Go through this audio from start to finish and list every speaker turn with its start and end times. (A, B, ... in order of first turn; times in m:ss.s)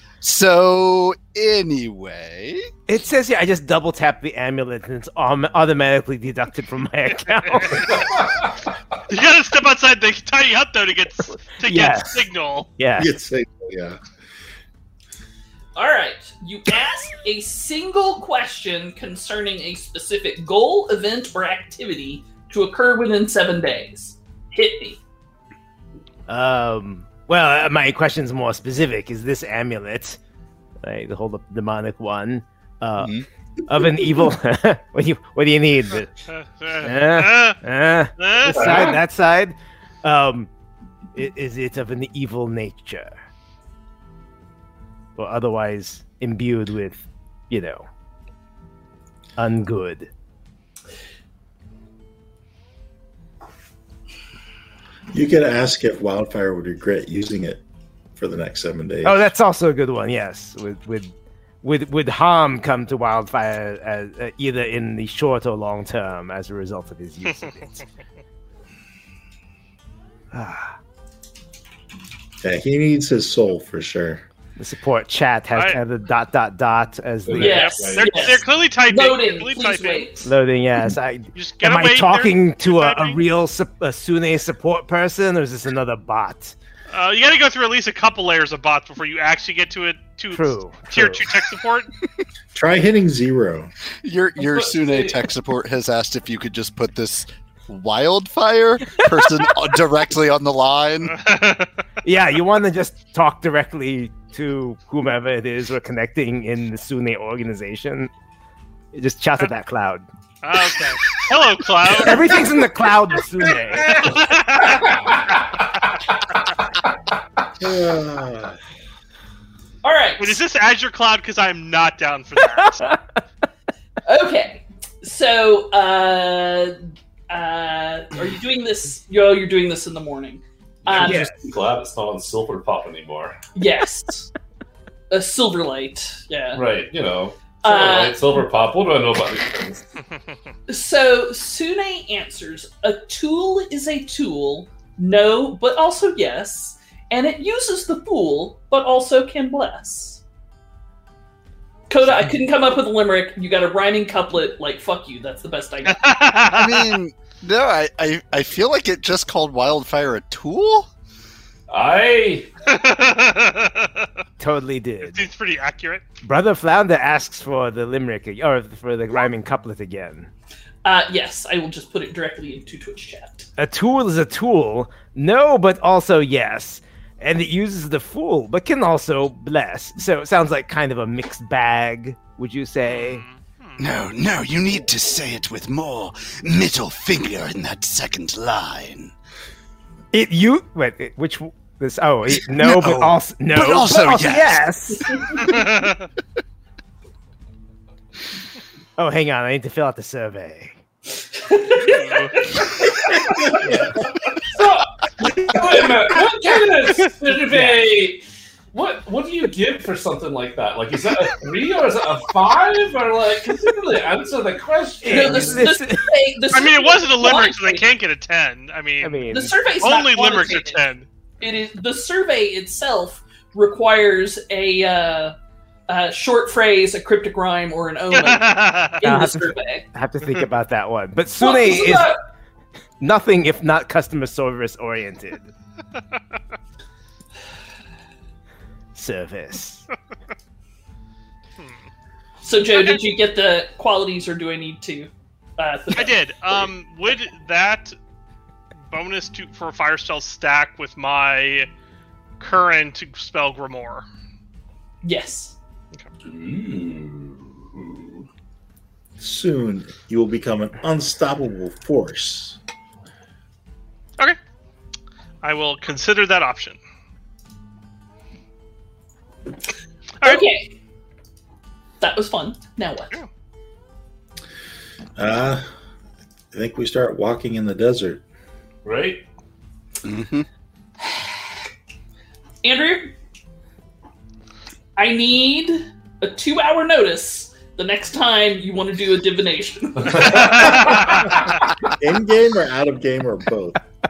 0:00.2-0:02.7 A
0:02.9-0:08.3 B
0:07.8-0:08.7 C
0:09.1-0:12.7 D
0:11.6-0:13.1 B
0:13.0-0:14.0 E
0:15.8-0:25.0 F
0:26.3-0:30.2 B
0:30.8-0:36.1 B
0:33.0-0:33.2 A
0:36.4-0:37.6 D
0:36.8-0:40.5 B
0:38.2-0:38.7 D
0:38.5-0:39.0 C
0:41.2-0:43.2 B
0:45.2-0:47.9 B
0:49.4-0:50.1 B
0:55.1-0:57.6 E
0:58.2-0:59.2 E
0:59.0-1:01.1 B
1:01.6-1:07.8 B
1:10.3-1:10.7 B
1:12.4-1:14.2 E
1:14.6-1:17.8 B
1:17.2-1:18.3 C
1:17.4-1:20.3 F
1:17.4-1:20.2 D
1:20.2-1:26.5 B
1:21.4-1:23.2 D
1:26.9-1:31.9 D
1:30.3-1:31.3 B
1:32.5-1:33.7 E
1:34.0-1:41.2 A
1:34.4-1:35.2 C
1:41.1-1:41.7 D
1:42.0-1:48.1 B
1:48.9-1:50.1 B
1:50.4-1:52.4 D
1:51.9-1:54.3 B
1:53.8-1:55.1 D
1:54.6-1:56.1 C
1:57.6-1:58.6 E
1:59.8-2:00.4 F
2:00.2-2:02.9 D
2:02.6-2:03.0 B
2:04.0-2:06.8 F
2:07.3-2:11.3 F
2:10.8-2:13.4 C
2:10.9-2:11.4 B
2:13.6-2:14.3 F
2:15.1-2:16.6 F
2:16.5-2:19.8 C
2:17.6-2:18.2 F
2:20.7-2:30.2 F
2:31.9-2:36.2 F
2:35.9-2:37.0 D
2:36.5-2:40.9 A
2:41.7-2:42.5 C
2:42.6-2:44.1 D
2:44.4-2:45.3 B
2:45.0-2:46.0 D
2:46.2-2:50.3 B
2:50.8-2:53.5 F
2:53.6-3:03.2 B
3:02.9-3:03.9 D
3:03.8-3:09.1 A
3:10.1-3:15.6 B
3:12.4-3:15.8 A
3:15.4-3:16.0 D
3:19.0-3:20.8 B
3:21.3-3:22.7 F
3:21.8-3:22.4 D
3:23.6-3:24.0 B
3:24.4-3:35.7 C
3:27.5-3:27.9 B
3:35.0-3:36.1 B
3:35.1-3:37.9 F
3:36.5-3:39.2 D
3:39.0-3:39.6 B
3:39.3-3:40.8 F
3:39.8-3:41.1 D
3:41.4-3:45.3 F
3:45.9-3:49.9 F
3:48.1-3:49.0 D
3:49.0-3:52.1 B
3:51.4-3:52.2 F
3:53.0-3:55.5 B
3:59.0-3:59.8 B
4:01.6-4:01.8 D
4:02.4-4:06.2 F
4:05.9-4:08.0 D
4:08.9-4:11.7 D
4:12.4-4:14.1 D
4:15.0-4:15.6 F
4:16.2-4:18.3 C
4:19.2-4:22.6 E
4:25.4-4:26.8 D
4:30.2-4:30.7 F
4:32.0-4:33.2 F
4:35.2-4:35.7 E
4:36.5-4:38.2 E
4:38.8-4:39.2 C
4:40.0-4:40.5 A
4:42.6-4:43.2 F
4:45.0-4:51.2 F
4:50.0-4:51.3 C
4:50.2-4:51.4 D
4:51.9-4:53.8 E